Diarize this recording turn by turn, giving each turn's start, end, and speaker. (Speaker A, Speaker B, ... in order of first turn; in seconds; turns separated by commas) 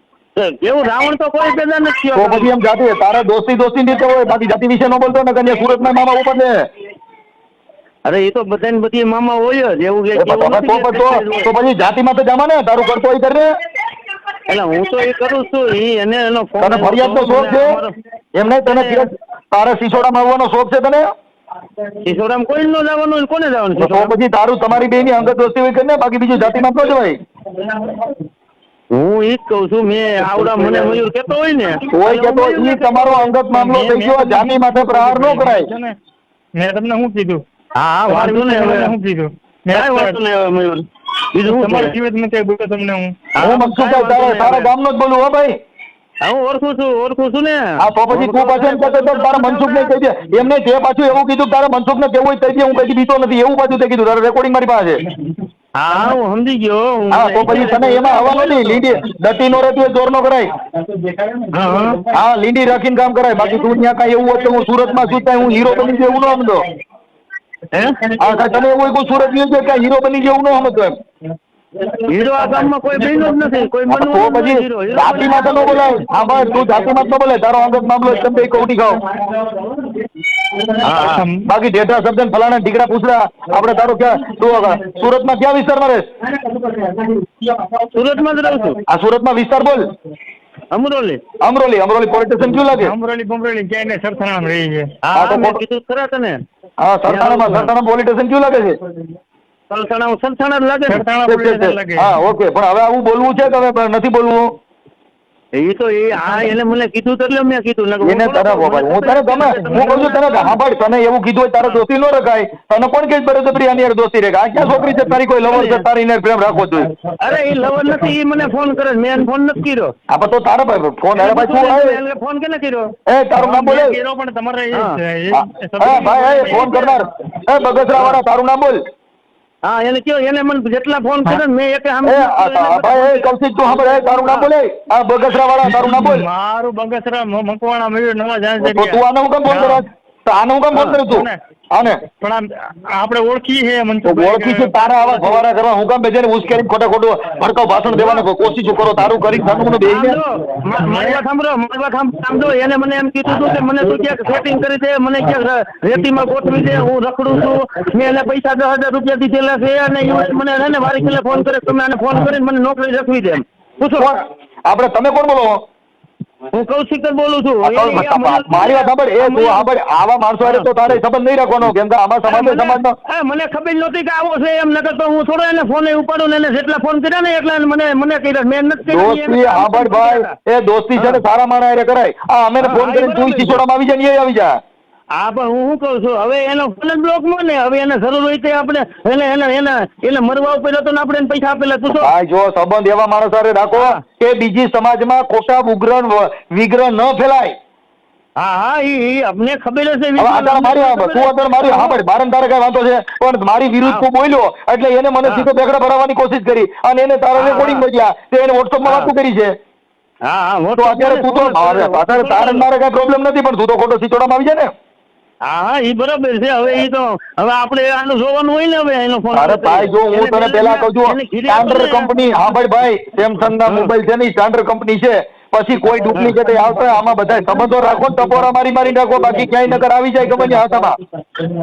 Speaker A: 0.4-2.5, Speaker B: 2.1-6.5, Speaker A: 8.1-11.5, Speaker B: 10.2-13.5, Speaker A: 14.5-17.9, Speaker B: 16.6-17.8, Speaker B: 18.4-21.1, Speaker A: 18.7-19.1, Speaker A: 22.1-24.1, Speaker B: 23.8-27.2, Speaker A: 28.9-32.7, Speaker B: 31.9-35.7, Speaker C: 32.7-35.9, Speaker C: 36.6-37.4, Speaker A: 37.8-38.9, Speaker C: 38.1-40.2, Speaker A: 39.7-40.9, Speaker A: 41.4-41.9, Speaker C: 41.4-43.2, Speaker A: 43.4-44.7, Speaker B: 43.4-45.5, Speaker A: 46.2-49.9, Speaker B: 47.8-55.0, Speaker A: 55.8-58.9, Speaker B: 57.1-60.5, Speaker A: 61.5-62.0, Speaker B: 62.1-66.7, Speaker B: 68.2-70.9, Speaker A: 72.0-75.9, Speaker B: 73.9-79.0, Speaker A: 80.8-81.2, Speaker C: 81.0-81.5, Speaker B: 81.5-86.0, Speaker A: 87.9-88.8, Speaker B: 88.9-89.9, Speaker A: 90.7-91.2, Speaker B: 91.4-92.9, Speaker C: 92.8-94.9, Speaker A: 95.1-96.4, Speaker B: 95.1-95.6, Speaker B: 96.8-98.8, Speaker A: 97.1-97.7, Speaker A: 99.7-101.0, Speaker C: 100.9-102.1, Speaker B: 101.3-104.5, Speaker A: 105.6-110.6, Speaker B: 108.0-116.9, Speaker A: 115.5-115.9, Speaker A: 117.2-119.9, Speaker B: 120.1-122.0, Speaker A: 121.2-122.9, Speaker B: 123.1-124.0, Speaker C: 123.4-126.7, Speaker B: 125.3-128.8, Speaker A: 127.9-128.2, Speaker A: 129.6-134.5, Speaker B: 132.0-136.3, Speaker C: 135.7-139.8, Speaker B: 138.6-142.0, Speaker C: 141.1-141.4, Speaker C: 142.2-144.8, Speaker B: 144.0-150.2, Speaker A: 149.8-164.1, Speaker C: 150.9-151.2, Speaker B: 164.0-165.6, Speaker A: 166.5-169.7, Speaker B: 167.6-172.9, Speaker A: 170.4-170.7, Speaker A: 172.3-180.3, Speaker B: 178.9-184.6, Speaker A: 181.0-181.2, Speaker A: 182.6-183.6, Speaker A: 185.2-192.1, Speaker B: 191.9-197.6, Speaker A: 193.7-194.0, Speaker A: 198.4-202.0, Speaker B: 200.2-209.5, Speaker A: 207.3-207.8, Speaker A: 208.8-209.1, Speaker A: 210.3-212.7, Speaker B: 210.8-214.7, Speaker A: 215.5-222.1, Speaker B: 219.3-231.0, Speaker A: 223.7-223.9, Speaker A: 226.1-226.4, Speaker A: 227.8-228.2